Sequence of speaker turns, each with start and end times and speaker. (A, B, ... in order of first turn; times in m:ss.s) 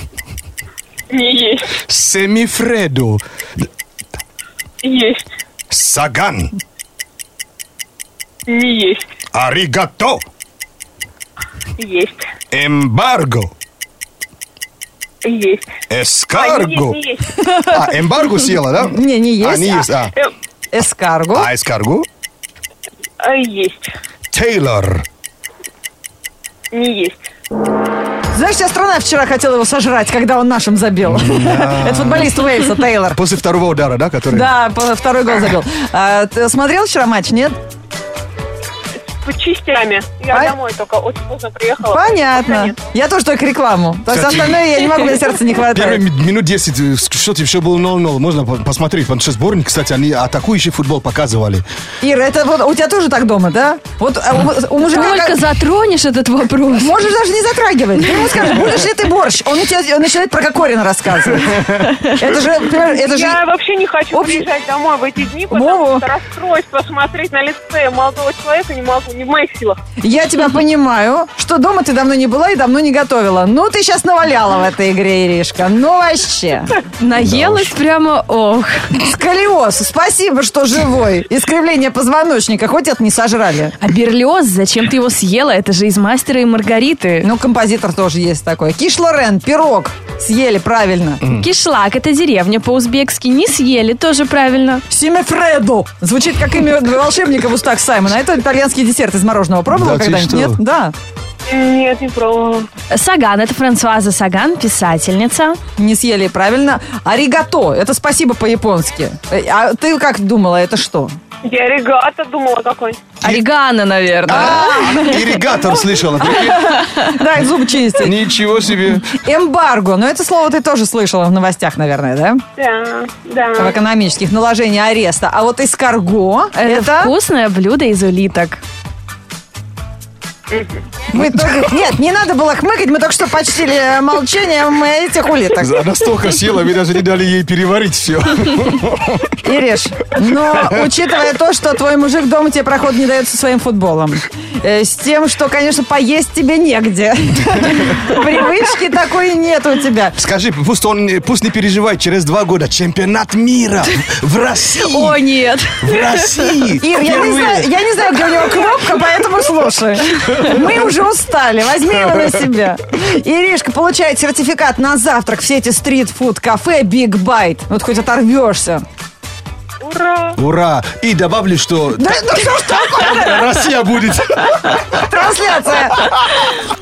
0:01.1-0:01.7 A
0:01.8-0:03.2 B
0:04.8-0:05.2 A
0:05.7-0:06.5 B
0:08.5-0:09.0 A
0:09.3-0:10.2 B
0:11.8-0:12.2 A
0:12.5-0:13.5 B
0:15.2-0:15.7 A
0:15.9-0:17.0 B
0:16.3-0:17.4 A
0:17.4-0:17.7 C
0:17.7-0:20.1 B
0:18.8-0:19.9 C
0:20.7-0:21.5 C
0:21.3-0:22.1 B
0:23.2-0:23.9 A
0:24.3-0:25.0 B
0:26.7-0:27.2 A
0:28.3-0:33.2 C
0:31.0-0:32.5 B
0:33.1-0:34.5 B
0:34.3-0:37.6 C
0:39.2-0:42.8 A
0:41.9-0:46.0 C
0:44.1-0:44.8 B
0:45.7-0:51.6 B
0:52.0-0:55.4 C
0:54.9-0:56.9 D
0:56.7-1:03.4 C
0:58.0-0:58.3 D
1:01.9-1:02.2 D
1:02.9-1:09.8 A
1:04.1-1:04.4 C
1:05.5-1:06.0 C
1:10.0-1:16.8 C
1:17.0-1:18.7 D
1:17.1-1:17.7 B
1:18.9-1:23.8 C
1:23.8-1:27.3 D
1:27.2-1:31.2 C
1:31.2-1:31.5 B
1:31.3-1:34.8 D
1:34.9-1:40.9 C
1:39.7-1:40.6 B
1:41.5-1:42.7 A
1:42.9-1:45.6 D
1:45.8-1:51.2 C
1:51.4-1:53.2 A
1:53.2-1:55.2 D
1:54.3-1:55.4 C
1:54.3-1:56.8 B
1:56.2-1:58.1 C
1:56.8-1:57.1 D
1:58.0-1:59.1 B
1:59.0-2:02.4 C
2:02.6-2:03.8 A
2:03.6-2:07.1 C
2:06.6-2:08.6 D
2:10.5-2:10.8 A
2:11.1-2:15.7 C
2:11.2-2:11.7 B
2:15.6-2:19.4 B
2:19.4-2:30.1 C
2:20.4-2:20.9 B
2:30.2-2:35.2 B
2:34.8-2:36.2 D
2:35.8-2:37.7 B
2:36.8-2:48.8 C
2:49.8-2:50.4 A
2:50.4-2:55.0 B
2:52.0-2:53.6 C
2:54.9-2:56.1 C